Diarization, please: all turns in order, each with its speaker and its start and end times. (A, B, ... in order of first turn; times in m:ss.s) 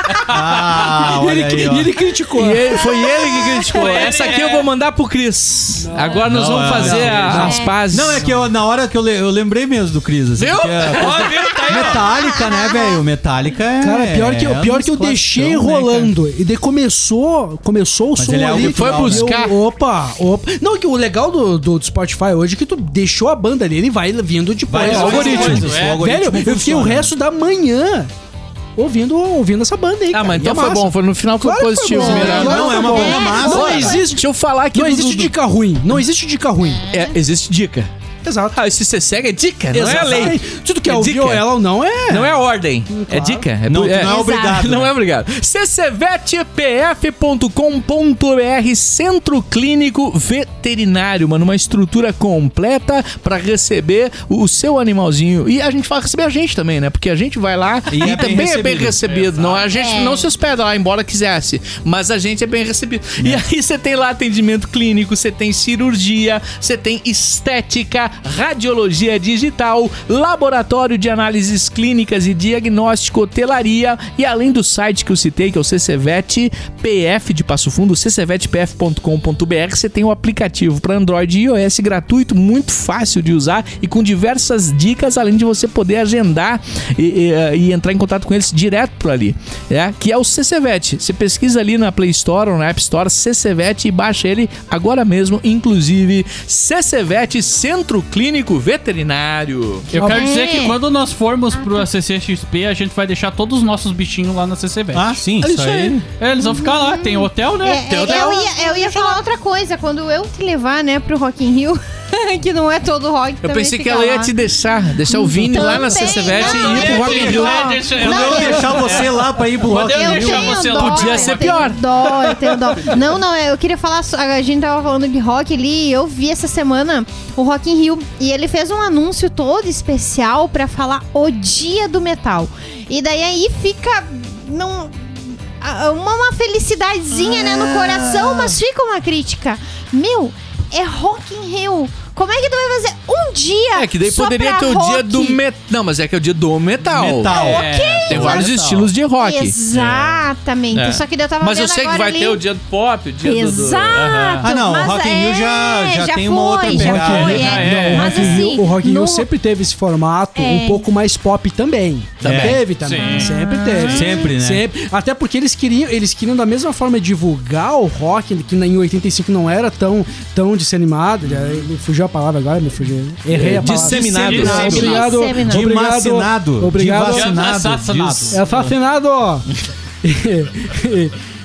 0:00.3-0:01.9 A
0:01.0-0:02.9 B
0:02.4-0:08.3 C
0:03.7-0:04.7 D
0:05.8-0:07.7 B
0:06.2-0:15.3 A
0:07.3-0:07.7 E
0:10.4-0:12.0 C
0:11.0-0:11.9 D
0:11.8-0:13.0 E
0:13.8-0:28.1 B
0:14.9-0:16.1 C
0:18.2-0:19.4 A
0:18.5-0:19.5 C
0:24.7-0:27.1 A
0:24.8-0:26.0 D
0:28.8-0:36.8 B
0:30.1-0:33.0 C
0:32.0-0:34.0 A
0:32.0-0:34.0 E
0:33.5-0:35.3 C
0:36.8-0:37.1 E
0:36.9-0:37.9 C
0:38.2-0:38.6 B
0:38.5-0:41.5 C
0:39.7-0:42.4 B
0:42.1-1:39.9 C
0:42.9-0:43.5 B
0:43.6-0:45.0 A
0:44.0-0:44.6 E
0:57.9-0:59.0 A
0:59.0-0:59.7 D
0:59.7-1:00.2 E
1:03.2-1:03.4 A
1:39.9-1:49.2 D
1:40.0-1:40.3 B
1:40.0-1:40.8 E
1:41.5-1:41.9 E
1:44.9-1:45.6 A
1:46.4-1:54.3 E
1:48.0-1:48.2 C
1:53.4-1:57.9 C
1:55.1-1:59.1 E
1:55.5-2:03.0 D
1:56.8-2:00.6 A
1:59.7-2:25.4 E
2:00.7-2:01.8 C
2:23.7-2:27.5 C
2:26.9-2:27.7 A
2:27.3-2:28.6 E
2:27.3-2:28.9 D
2:28.1-2:30.1 C
2:29.2-2:32.4 E
2:30.7-2:34.3 C
2:33.2-2:39.3 E
2:33.9-2:34.4 D
2:34.4-2:38.0 A
2:36.7-2:57.5 B
2:37.0-2:38.4 D
2:40.4-2:40.8 E
2:42.2-2:42.6 C
2:42.2-2:42.6 A
2:42.8-2:43.8 D
2:42.9-2:44.3 E
2:43.8-2:44.6 A
2:53.3-2:55.0 C
2:53.6-2:54.9 D
2:54.4-2:55.7 E
2:54.4-2:58.4 A
2:57.0-2:58.8 D
2:58.3-2:59.4 B
3:00.0-3:01.1 B